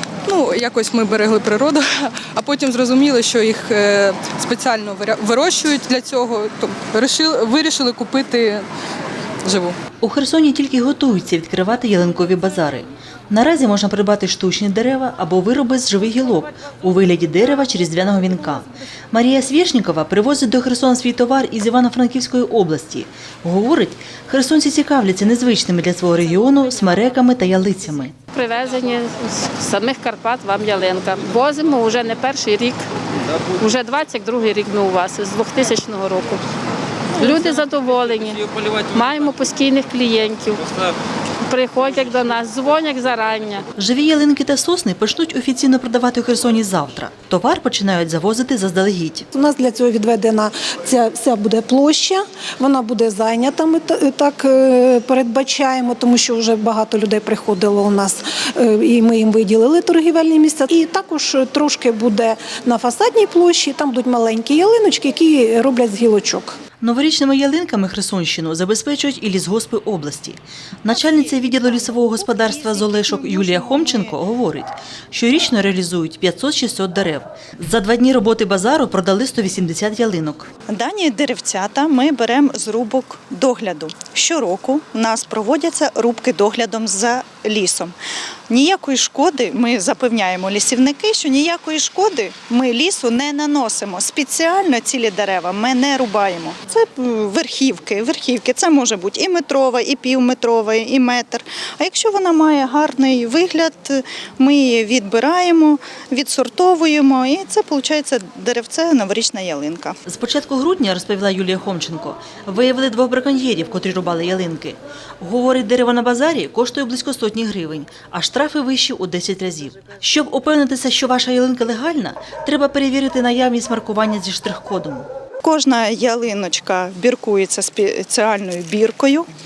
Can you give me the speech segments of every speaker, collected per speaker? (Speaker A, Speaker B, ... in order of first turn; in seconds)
Speaker A: 0.3-8.7, 9.4-9.8
Speaker B: 10.0-28.1, 43.8-49.2, 66.8-80.5, 110.1-125.1
Speaker C: 28.3-32.8, 33.6-36.4, 37.2-40.7, 41.4-43.6
Speaker D: 49.3-66.5
Speaker E: 70.9-74.2, 80.7-87.9, 88.5-110.0, 125.4-129.3